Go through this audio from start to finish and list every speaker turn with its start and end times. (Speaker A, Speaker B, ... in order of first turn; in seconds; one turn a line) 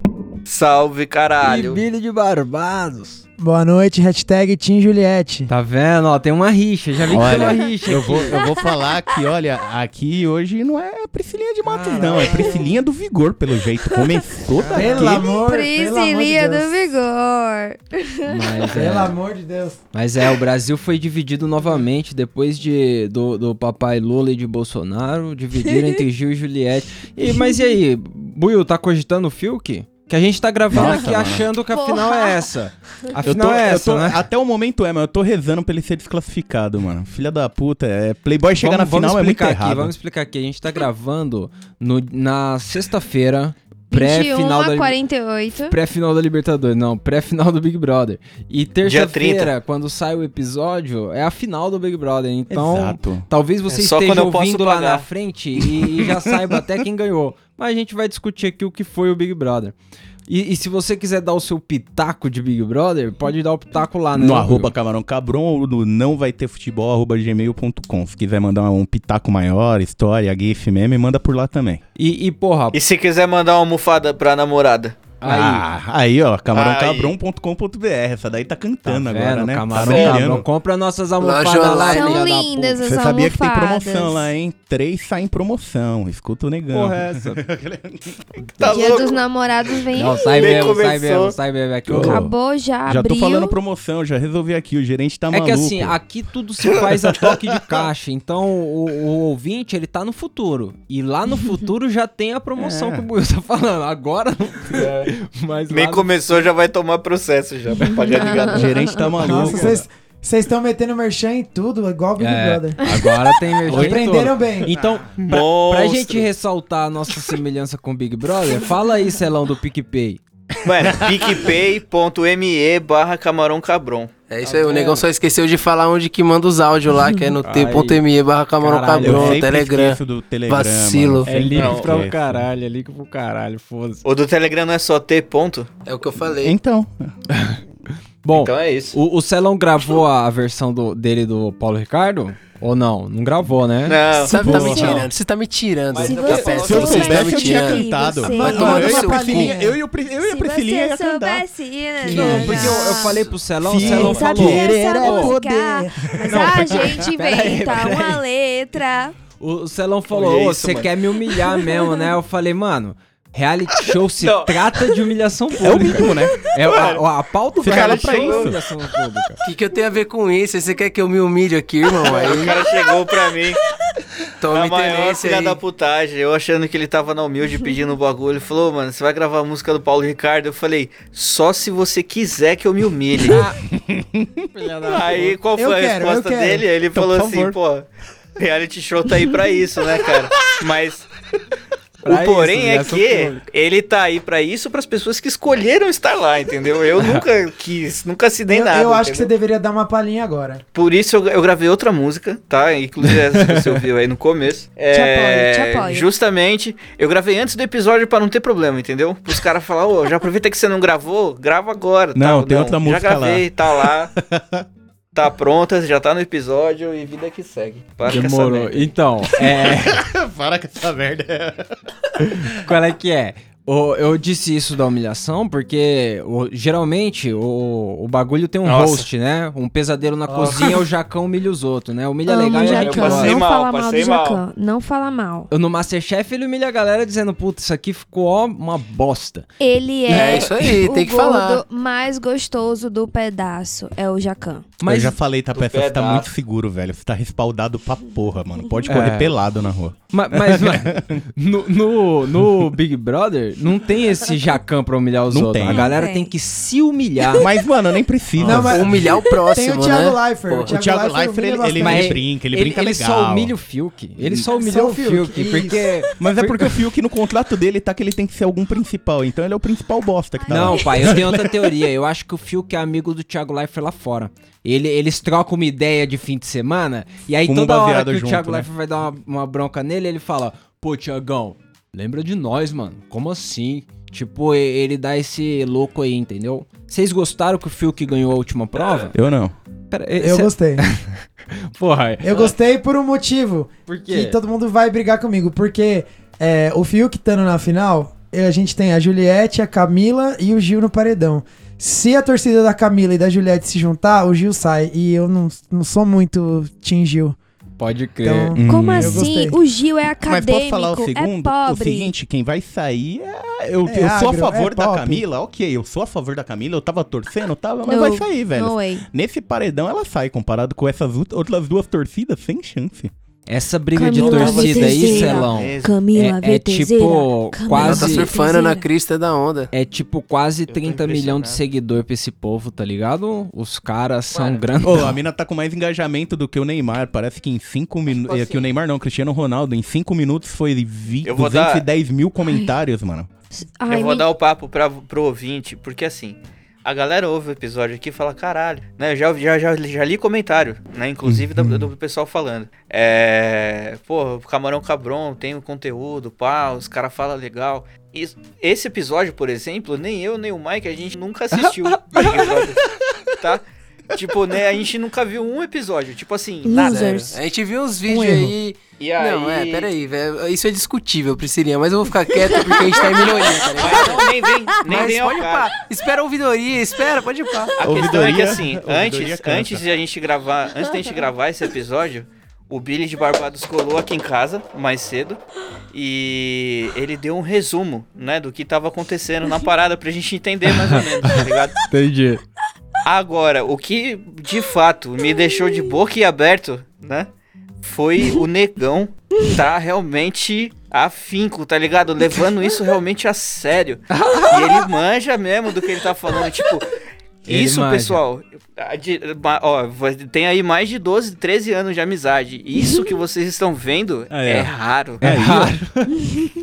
Speaker A: 0.4-1.8
Speaker B: 1.4-3.2
Speaker C: 3.4-5.5
Speaker B: 5.5-8.4
Speaker D: 7.1-15.3
Speaker E: 8.4-8.8
Speaker B: 11.6-12.6
Speaker B: 14.6-15.1
Speaker C: 14.7-16.9
Speaker E: 15.3-18.5
Speaker B: 18.3-19.1
Speaker C: 18.7-19.8
Speaker B: 19.9-34.2
Speaker E: 25.6-26.0
Speaker E: 27.3-27.8
Speaker D: 30.7-31.5
Speaker E: 31.7-32.4
Speaker D: 33.2-39.9
Speaker B: 38.6-45.0
Speaker E: 43.9-45.8
Speaker B: 45.7-59.7
Speaker A: 48.8-49.5
Speaker D: 52.5-53.2
Speaker A: 53.7-55.0
Speaker B: 60.3-64.7
Speaker D: 64.1-71.8
Speaker B: 72.0-72.8
Speaker A: 72.7-75.0
Speaker B: 75.2-75.7
Speaker D: 75.2-80.4
Speaker A: 76.5-77.2
Speaker B: 78.8-82.8
Speaker A: 79.8-80.2
Speaker F: 81.2-82.3
Speaker E: 81.8-84.3
Speaker D: 82.8-88.7
Speaker B: 86.7-87.4
Speaker A: 88.6-89.2
Speaker E: 88.6-90.8
Speaker B: 89.9-92.3
Speaker A: 90.2-91.3
Speaker D: 91.9-92.3
Speaker E: 91.9-93.6
Speaker D: 92.8-96.0
Speaker B: 95.3-106.5
Speaker D: 97.1-97.8
Speaker D: 102.6-103.1
Speaker A: 105.7-108.7
Speaker B: 107.8-108.2
Speaker E: 107.8-109.0
Speaker D: 108.5-109.8
Speaker B: 109.2-109.8
Speaker C: 109.2-112.8
Speaker B: 112.2-120.2
Speaker C: 113.7-114.7
Speaker D: 114.7-115.1
Speaker A: 115.2-116.2
Speaker A: 120.6-124.1
Speaker D: 120.8-121.2
Speaker F: 124.3-131.3
Speaker B: 124.4-125.0
Speaker B: 127.4-128.0
Speaker B: 128.6-129.4
Speaker D: 129.0-132.5
Speaker B: 131.2-134.0
Speaker A: 131.5-131.9
Speaker A: 134.0-135.7
Speaker F: 135.8-136.5
Speaker D: 136.4-137.1
Speaker B: 137.3-137.6
Speaker B: 138.2-144.9
Speaker A: 138.3-138.9
Speaker A: 143.8-144.3
Speaker F: 144.1-147.9
Speaker D: 144.3-145.1
Speaker E: 144.4-145.1
Speaker A: 145.9-147.3
Speaker E: 146.0-149.4
Speaker D: 146.6-154.7
Speaker C: 148.2-149.8
Speaker F: 148.4-149.5
Speaker E: 150.2-153.2
Speaker B: 152.1-155.4
Speaker C: 152.1-152.8
Speaker E: 153.8-159.1
Speaker C: 153.8-156.5
Speaker D: 156.0-157.1
Speaker B: 156.2-158.2
Speaker B: 159.4-169.4
Speaker A: 160.1-160.9
Speaker A: 164.2-164.5
Speaker D: 165.6-166.4
Speaker A: 166.6-167.0
Speaker D: 167.6-168.6
Speaker A: 167.6-168.5
Speaker F: 169.4-172.7
Speaker A: 172.0-173.6
Speaker F: 174.4-175.6
Speaker A: 174.4-183.4
Speaker B: 183.2-183.6
Speaker D: 183.7-184.4
Speaker B: 184.5-185.4
Speaker A: 184.8-187.8
Speaker C: 185.6-186.7
Speaker D: 186.9-187.6
Speaker A: 188.4-191.1
Speaker B: 192.0-193.4
Speaker A: 192.0-199.3
Speaker C: 198.5-200.6
Speaker A: 200.7-214.1
Speaker B: 203.3-203.7
Speaker E: 204.9-206.1
Speaker D: 212.1-214.6
Speaker A: 215.1-218.9
Speaker B: 218.1-220.1
Speaker D: 219.4-222.5
Speaker B: 222.6-233.4
Speaker A: 228.6-229.1
Speaker E: 232.3-235.5
Speaker A: 232.5-234.4
Speaker B: 235.5-239.5
Speaker E: 239.6-244.7
Speaker F: 240.1-241.6
Speaker B: 244.8-245.2
Speaker D: 244.8-251.2
Speaker A: 245.5-246.3
Speaker B: 248.9-249.4
Speaker B: 250.1-257.5
Speaker D: 252.3-252.6
Speaker D: 255.3-255.9
Speaker E: 255.7-256.3
Speaker D: 257.4-259.1
Speaker C: 258.4-262.2
Speaker B: 258.4-258.7
Speaker F: 258.6-260.7
Speaker D: 260.7-263.5
Speaker B: 261.8-266.8
Speaker C: 264.5-265.9
Speaker E: 264.5-264.8
Speaker D: 266.2-271.6
Speaker E: 270.4-271.1
Speaker B: 270.5-289.1
Speaker D: 277.4-278.7
Speaker D: 289.1-289.5
Speaker B: 289.9-292.5
Speaker C: 290.2-290.8
Speaker C: 292.2-307.4
Speaker B: 293.9-294.4
Speaker B: 307.8-308.6
Speaker C: 308.2-309.6
Speaker D: 308.6-309.3
Speaker E: 308.7-312.1
Speaker D: 310.2-323.1
Speaker C: 313.9-315.2
Speaker E: 317.8-319.0
Speaker B: 323.5-328.3
Speaker E: 323.9-328.9
Speaker F: 324.1-325.2
Speaker C: 324.4-324.8
Speaker A: 325.4-326.0
Speaker F: 327.7-329.7
Speaker B: 329.7-335.2
Speaker A: 330.7-331.6
Speaker A: 334.3-334.6
Speaker D: 334.8-343.3
Speaker A: 341.2-341.9
Speaker E: 343.8-344.3
Speaker A: 343.9-362.8
Speaker D: 351.2-351.9
Speaker B: 361.5-362.6
Speaker A: 363.4-367.3
Speaker E: 366.6-367.4
Speaker F: 366.8-377.7
Speaker C: 368.1-368.5
Speaker A: 369.0-369.9
Speaker A: 373.4-375.7
Speaker A: 377.8-385.4
Speaker D: 377.8-379.9
Speaker A: 385.9-391.7
Speaker B: 390.7-391.3
Speaker B: 391.9-392.4
Speaker A: 393.0-397.3
Speaker A: 397.8-406.9
Speaker B: 404.1-404.8
Speaker A: 407.4-415.2
Speaker B: 407.4-408.2
Speaker E: 412.8-413.2
Speaker D: 414.3-415.9
Speaker B: 415.2-416.1